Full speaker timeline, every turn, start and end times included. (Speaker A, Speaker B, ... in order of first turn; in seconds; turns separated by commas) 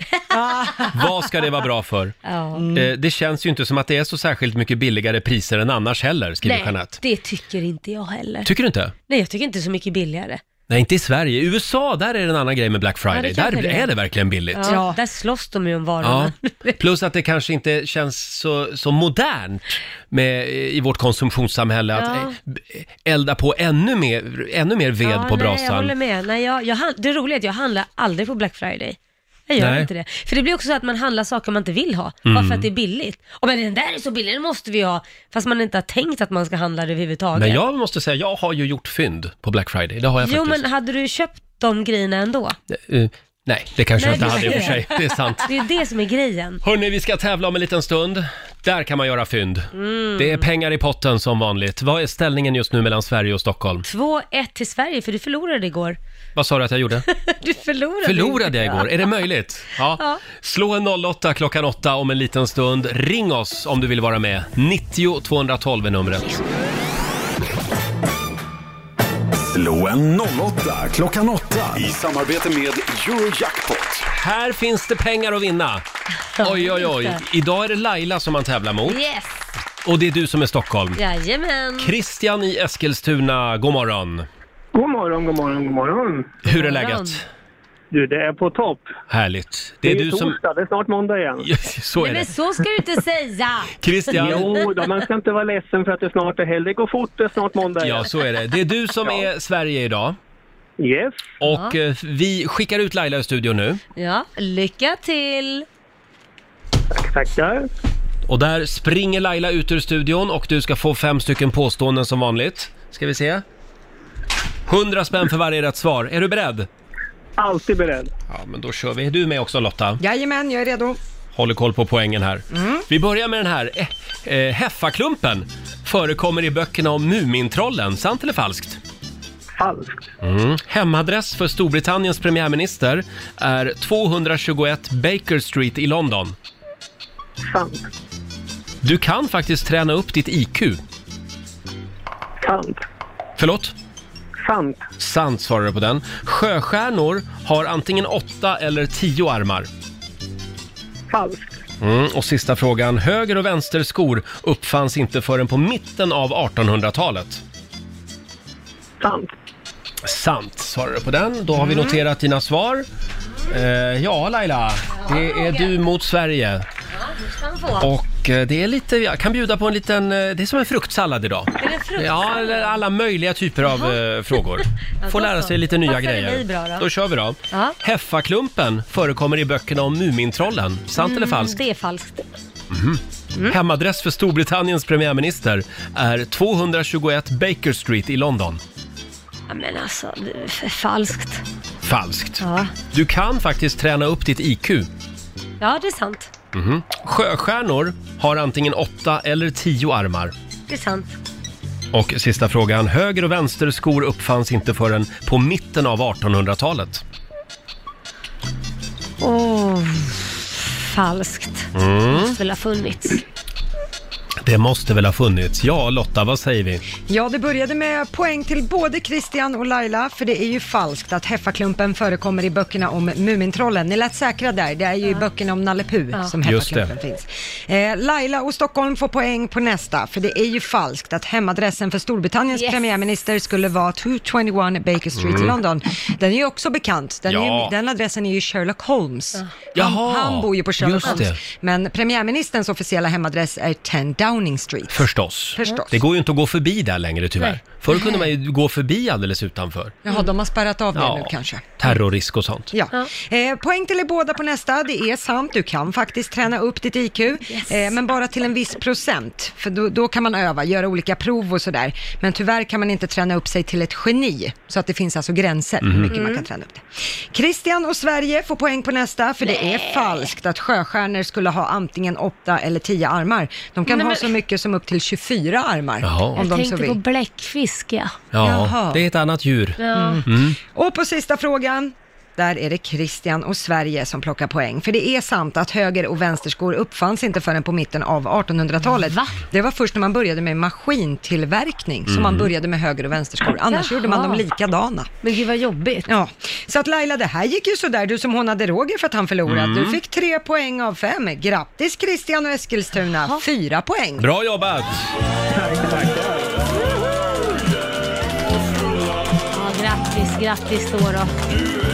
Speaker A: 0.3-1.1, Speaker B: 0.9-2.1, Speaker C: 2.2-2.7, Speaker A: 2.5-2.9, Speaker B: 2.7-7.0, Speaker C: 6.4-8.5, Speaker B: 8.4-8.9, Speaker C: 9.1-10.4, Speaker B: 10.7-14.8, Speaker C: 13.1-13.9, Speaker C: 14.5-16.8, Speaker A: 14.7-15.0, Speaker B: 16.0-25.9, Speaker C: 21.9-22.4, Speaker C: 25.0-29.0, Speaker C: 29.5-37.6, Speaker B: 29.6-29.9, Speaker B: 32.3-32.7, Speaker B: 37.4-40.6, Speaker C: 40.2-42.6, Speaker B: 42.7-45.5, Speaker C: 44.0-44.8, Speaker C: 45.5-46.6, Speaker B: 46.6-53.9, Speaker C: 49.7-50.5, Speaker C: 53.9-56.0, Speaker B: 56.4-57.1, Speaker C: 57.1-59.2, Speaker B: 58.0-66.5, Speaker C: 60.0-60.2, Speaker D: 69.4-74.1, Speaker B: 74.1-75.8, Speaker C: 76.4-77.2, Speaker B: 76.4-79.0, Speaker C: 78.9-79.5, Speaker B: 79.8-81.0, Speaker C: 81.0-81.9, Speaker B: 81.8-84.3, Speaker E: 84.7-86.4, Speaker B: 86.4-87.2, Speaker C: 86.5-87.2, Speaker E: 87.9-88.9, Speaker B: 89.1-90.4, Speaker E: 89.8-91.5, Speaker B: 91.4-92.3, Speaker C: 92.0-94.6, Speaker B: 93.8-94.5, Speaker E: 94.1-98.1, Speaker B: 97.8-100.2, Speaker E: 100.8-101.3, Speaker B: 101.4-103.8, Speaker C: 101.5-101.8, Speaker C: 104.0-105.7, Speaker E: 106.9-107.7, Speaker B: 108.3-113.4, Speaker B: 114.7-116.7, Speaker E: 117.4-118.1, Speaker B: 118.3-120.0, Speaker A: 120.0-121.0, Speaker B: 121.3-128.8, Speaker A: 122.5-122.8, Speaker E: 129.6-130.0, Speaker B: 130.2-136.4, Speaker E: 137.4-137.9, Speaker B: 138.8-140.8, Speaker E: 142.4-142.8, Speaker B: 143.4-143.7, Speaker E: 144.4-144.8, Speaker B: 145.0-149.7, Speaker E: 151.1-151.5, Speaker B: 151.8-157.4, Speaker E: 159.0-159.3, Speaker B: 160.0-162.9, Speaker B: 163.5-166.7, Speaker C: 165.0-165.7, Speaker C: 167.0-167.9, Speaker B: 167.8-181.6, Speaker C: 171.6-172.8, Speaker C: 173.6-174.4, Speaker C: 175.0-176.9, Speaker C: 177.5-177.8, Speaker C: 181.0-182.2, Speaker B: 182.7-188.6, Speaker C: 189.5-191.4, Speaker B: 191.8-194.9, Speaker C: 192.4-192.7, Speaker C: 195.6-196.3, Speaker B: 196.5-200.3, Speaker C: 200.7-201.1, Speaker B: 201.9-207.0, Speaker C: 209.2-213.2, Speaker B: 211.7-212.4, Speaker B: 214.4-216.8, Speaker A: 217.1-246.0, Speaker B: 226.4-226.9, Speaker C: 232.5-232.8, Speaker B: 235.2-235.6, Speaker B: 237.3-237.7, Speaker B: 239.8-241.4, Speaker B: 244.9-249.9, Speaker A: 247.9-248.3, Speaker A: 250.1-252.0, Speaker B: 250.9-252.7, Speaker A: 252.7-277.0, Speaker C: 257.5-257.9, Speaker B: 265.8-266.1, Speaker C: 266.1-266.5, Speaker C: 269.4-270.3, Speaker C: 273.9-274.3, Speaker B: 276.0-276.4, Speaker C: 276.4-278.2, Speaker B: 278.3-280.6, Speaker A: 278.4-279.0, Speaker C: 279.8-280.2, Speaker A: 279.9-295.1, Speaker C: 288.9-289.4, Speaker B: 292.1-292.5, Speaker C: 293.5-294.4, Speaker C: 295.2-296.1, Speaker A: 296.1-304.3, Speaker B: 299.5-300.0, Speaker B: 304.2-305.1, Speaker E: 305.5-306.4, Speaker C: 309.5-311.3